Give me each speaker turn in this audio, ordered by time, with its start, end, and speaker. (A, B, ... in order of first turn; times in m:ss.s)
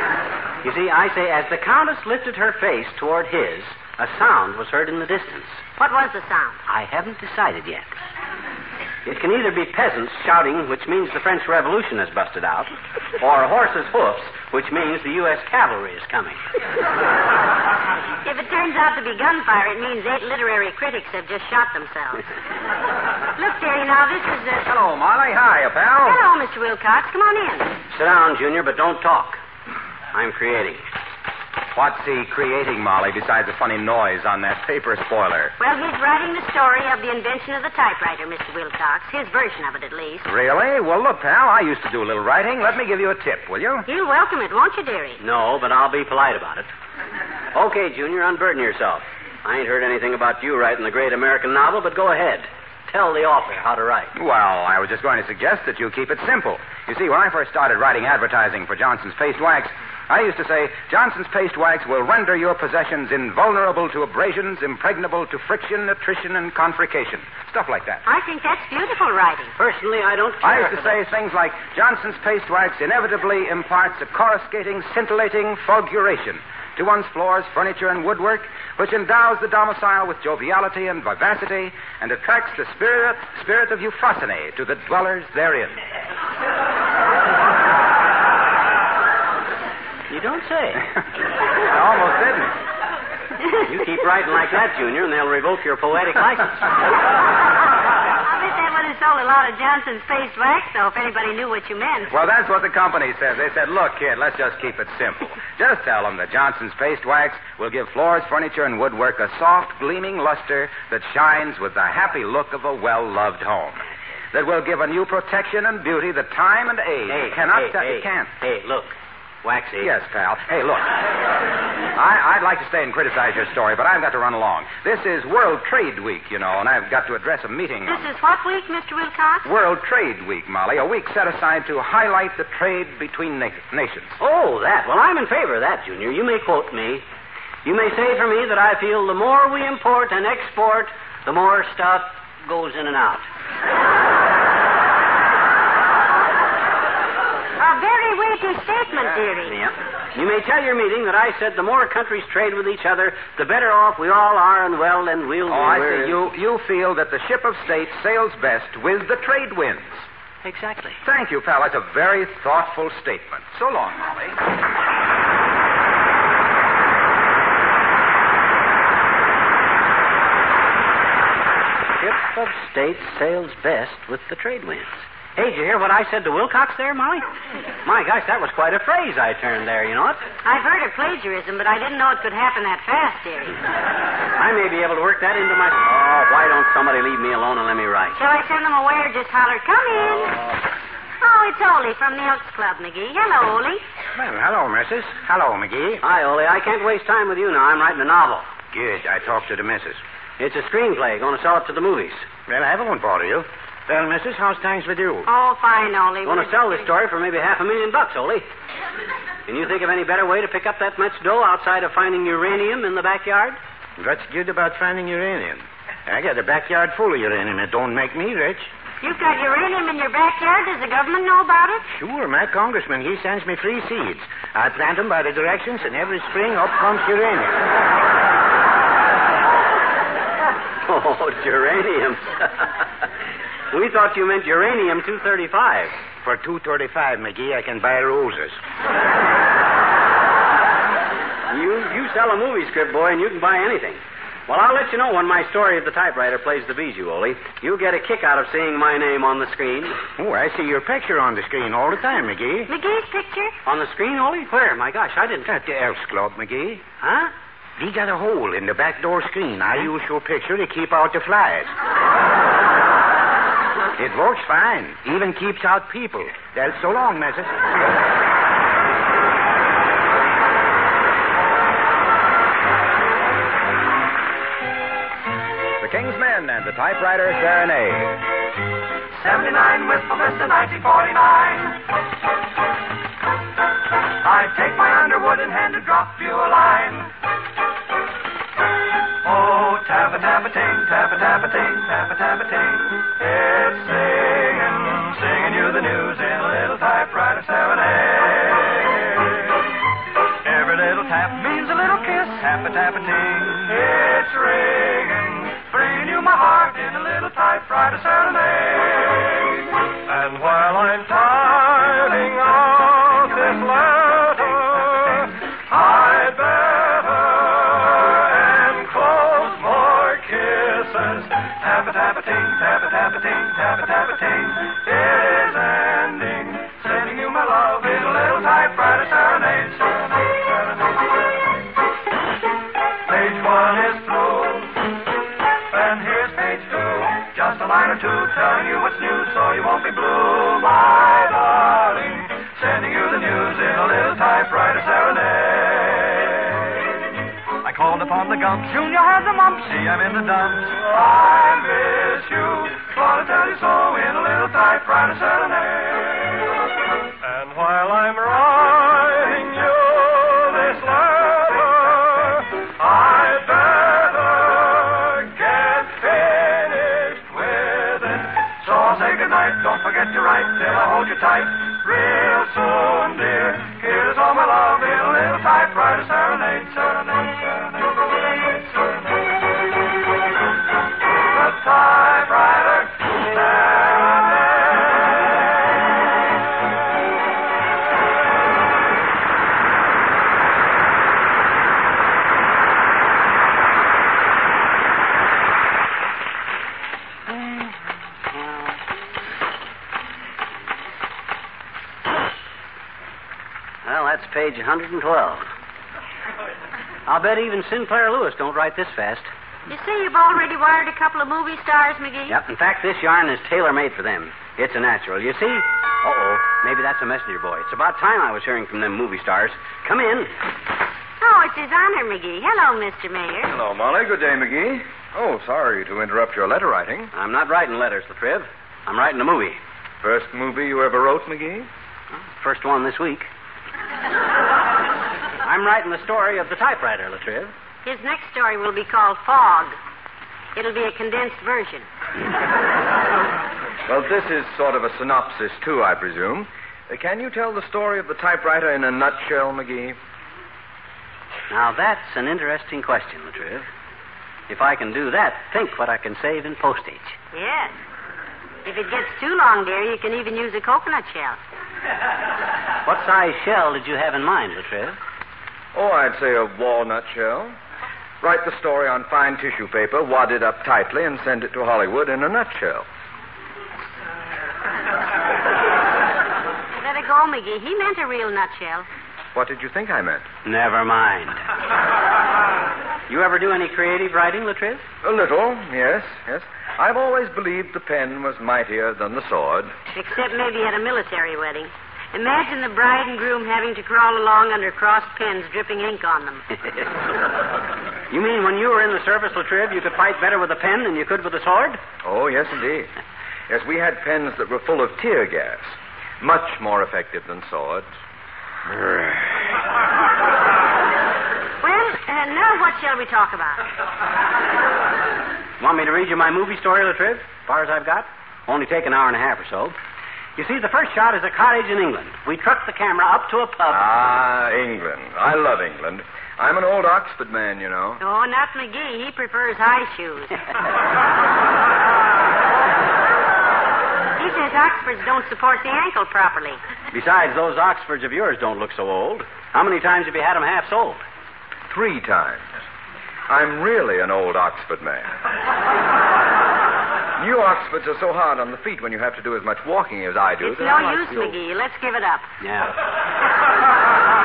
0:00.6-0:05.6 A
0:05.8-0:06.6 B
0:06.7-0:07.9 A
0:09.0-0:16.4 A
0:18.2-0:22.3 B
0:23.4-0:24.7 B
0:24.7-0:26.2 C
0:26.0-0:27.7 B
0:27.9-0:29.4 A
0:30.1-0:30.9 A
0:31.8-0:35.5 C
0:35.6-0:40.3 B
0:40.3-0:43.9 C
0:43.9-0:45.2 B
0:45.2-0:46.7 A
0:47.5-0:54.1 A
0:54.2-1:08.0 C
1:08.1-1:09.5 B
1:09.6-1:11.0 A
1:10.4-1:25.8 C
1:30.1-1:30.9 A
1:31.6-1:32.6 C
1:33.6-1:36.7 A
1:38.2-1:42.1 B
1:42.1-1:58.3 C
1:57.1-1:59.9 A
1:59.8-2:01.0 C
2:01.9-2:08.1 C
2:07.9-2:09.5 B
2:09.4-2:14.2 C
2:14.2-2:17.0 A
2:17.6-2:23.3 A
2:27.6-2:29.6 B
2:29.2-2:36.3 A
2:35.5-2:40.1 C
2:40.4-2:41.0 A
2:41.0-2:44.4 C
2:52.0-2:57.2 A
2:57.8-3:00.2 A
3:00.4-3:03.6 B
3:04.4-3:08.2 A
3:08.2-3:10.4 B
3:11.2-3:13.8 B
3:14.2-3:16.0 D
3:16.0-3:18.5 A
3:18.7-3:20.0 D
3:20.4-3:22.3 A
3:22.5-3:25.3 D
3:25.3-3:26.9 B
3:26.2-3:28.5 A
3:29.5-3:33.6 A
3:34.0-3:38.7 D
3:39.0-3:41.8 B
3:41.9-3:47.6 D
3:50.8-3:52.8 A
3:53.7-3:55.9 A
3:56.2-3:58.6 D
4:01.5-4:10.1 A
4:10.2-4:12.7 D
4:12.7-4:13.5 B
4:13.7-4:15.5 A
4:15.4-4:16.8 D
4:17.0-4:17.3 A
4:17.8-4:21.7 D
4:24.0-4:27.6 D
4:35.8-4:38.2 C
4:39.2-4:41.8 E
4:44.2-4:47.1 E
4:49.2-4:59.0 E
5:00.4-5:30.5 E
5:33.1-5:34.9 E
5:35.7-5:46.5 E
5:47.6-5:56.3 E
5:57.2-6:17.7 E
6:21.3-6:24.7 E
6:43.8-6:45.5 A
6:47.1-6:49.3 A
6:49.7-6:52.4 B
6:52.3-7:00.3 A
7:01.2-7:03.5 B
7:03.5-7:07.1 F
7:07.1-7:09.6 A
7:10.0-7:11.7 F
7:12.4-7:13.3 A
7:15.4-7:17.5 A
7:17.8-7:19.8 B
7:20.6-7:21.9 B
7:23.9-7:30.0 F
7:31.5-7:33.7 A
7:34.5-7:37.2 A
7:37.3-7:37.8 B
7:38.6-7:41.4 B
7:42.8-7:45.0 A
7:45.8-7:47.5 F
7:48.2-7:52.8 F
7:56.8-7:58.9 B
7:59.4-8:00.3 F
8:00.4-8:01.4 A
8:03.1-8:04.9 A
8:05.0-8:09.7 F
8:10.0-8:16.5 B
8:18.1-8:21.8 A
8:22.0-8:22.9 F
8:23.5-8:27.8 F
8:31.6-8:33.6 B
8:35.6-8:39.8 A
8:40.4-8:43.8 A
8:43.7-8:48.0 F
8:48.0-8:50.5 B
8:54.2-8:56.6 B
8:56.9-9:01.0 A
9:01.7-9:02.4 F
9:03.3-9:05.1 F
9:07.2-9:11.4 F
9:10.4-9:12.3 B
9:12.4-9:12.8 A